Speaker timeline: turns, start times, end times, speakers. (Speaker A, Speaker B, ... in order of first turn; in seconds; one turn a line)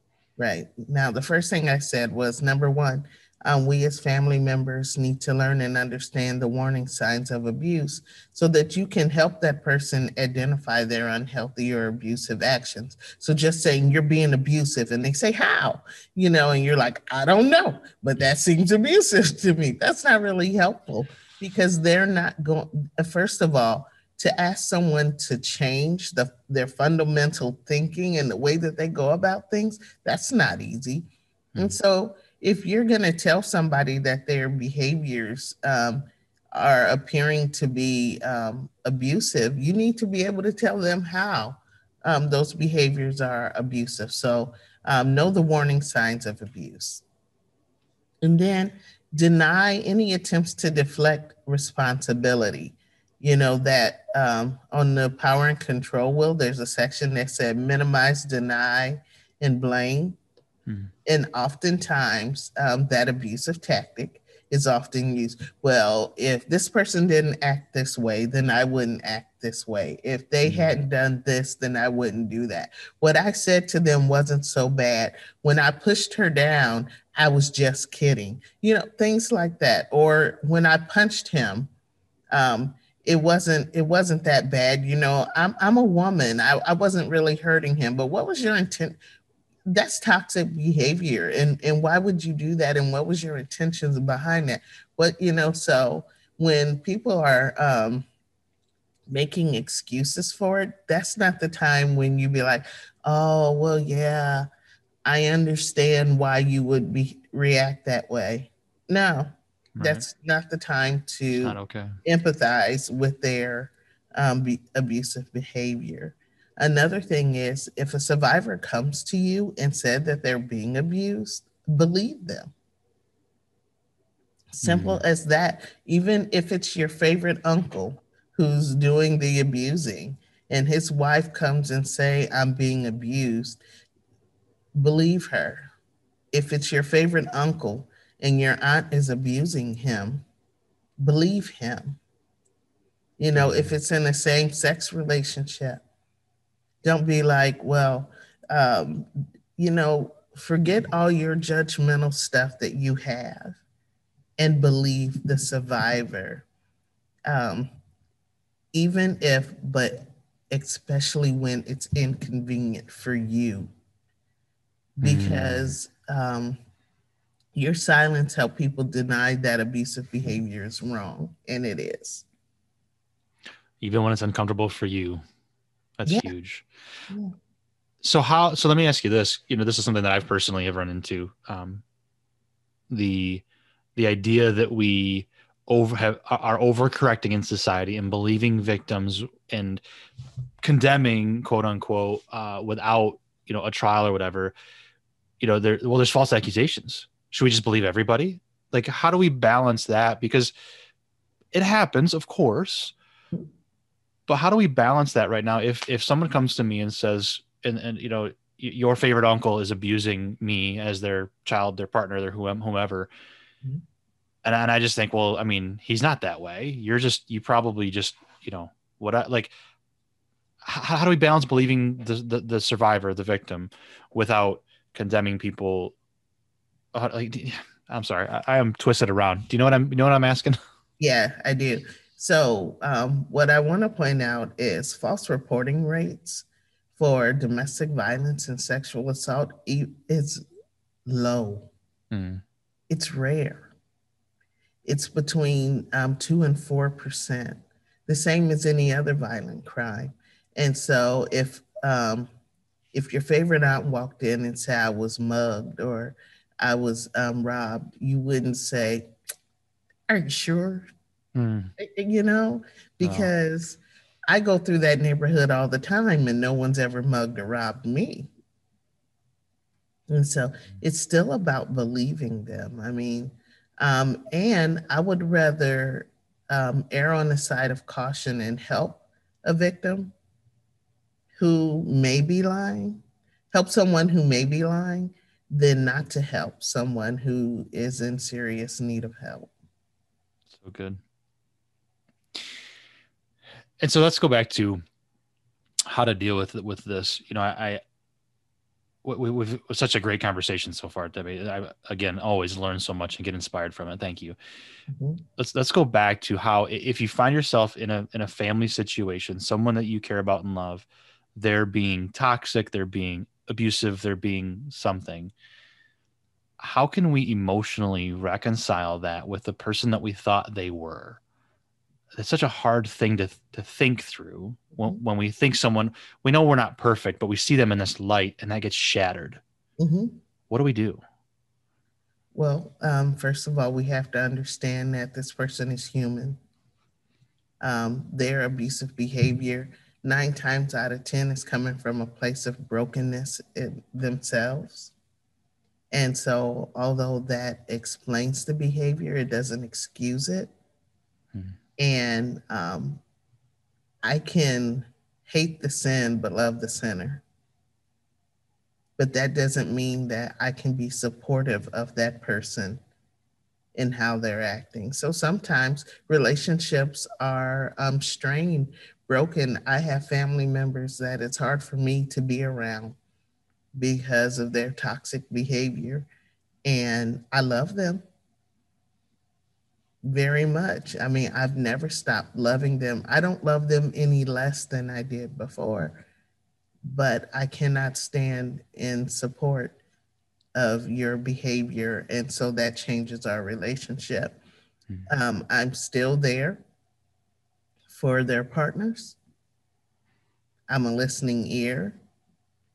Speaker A: 0.4-47.0
Speaker A: 48.2-60.2
Speaker B: 60.7-60.9
Speaker A: 61.0-81.7
Speaker B: 70.4-70.7
Speaker A: 82.3-89.0
Speaker A: 89.7-98.1
Speaker A: 99.1-104.5
Speaker A: 105.0-122.5
Speaker B: 109.8-110.0
Speaker B: 111.4-112.0
Speaker A: 124.6-133.6
Speaker B: 124.6-125.0
Speaker A: 134.7-135.6
Speaker A: 136.3-140.2
Speaker A: 141.0-142.0
Speaker A: 143.2-145.8
Speaker B: 143.3-143.7
Speaker A: 146.8-153.6
Speaker A: 154.4-156.4
Speaker A: 157.3-157.7
Speaker A: 158.7-163.7
Speaker B: 165.0-165.7
Speaker A: 165.0-166.6
Speaker A: 167.5-172.2
Speaker B: 173.8-175.2
Speaker B: 176.0-176.7
Speaker B: 178.0-181.8
Speaker B: 182.9-183.4
Speaker B: 183.9-189.8
Speaker B: 190.6-194.5
Speaker B: 195.4-200.5
Speaker B: 201.5-202.9
Speaker B: 204.3-213.1
Speaker B: 214.4-219.5
Speaker B: 220.6-225.9
Speaker B: 226.9-230.6
Speaker A: 231.0-240.4
Speaker A: 241.1-241.7
Speaker B: 242.1-242.4
Speaker A: 242.9-243.7
Speaker A: 244.8-252.3
Speaker A: 252.9-259.1
Speaker A: 260.1-260.8
Speaker B: 261.3-261.7
Speaker A: 261.8-268.3
Speaker B: 263.0-263.3
Speaker A: 270.1-280.1
Speaker A: 281.4-289.5
Speaker B: 290.5-291.0
Speaker B: 293.8-294.8
Speaker B: 295.9-297.8
Speaker B: 299.0-304.4
Speaker A: 304.9-305.2
Speaker B: 305.4-315.3
Speaker B: 316.6-321.2
Speaker B: 322.2-329.4
Speaker A: 329.8-330.2
Speaker B: 330.5-331.0
Speaker A: 332.3-336.4
Speaker A: 337.6-344.9
Speaker A: 345.9-350.5
Speaker A: 351.8-353.0
Speaker A: 354.0-357.2
Speaker A: 359.0-362.8
Speaker A: 363.8-373.0
Speaker A: 373.7-376.1
Speaker A: 376.6-378.0
Speaker A: 380.0-386.0
Speaker A: 386.9-389.8
Speaker A: 390.5-394.4
Speaker A: 395.1-396.6
Speaker A: 397.9-399.2
Speaker A: 400.7-402.0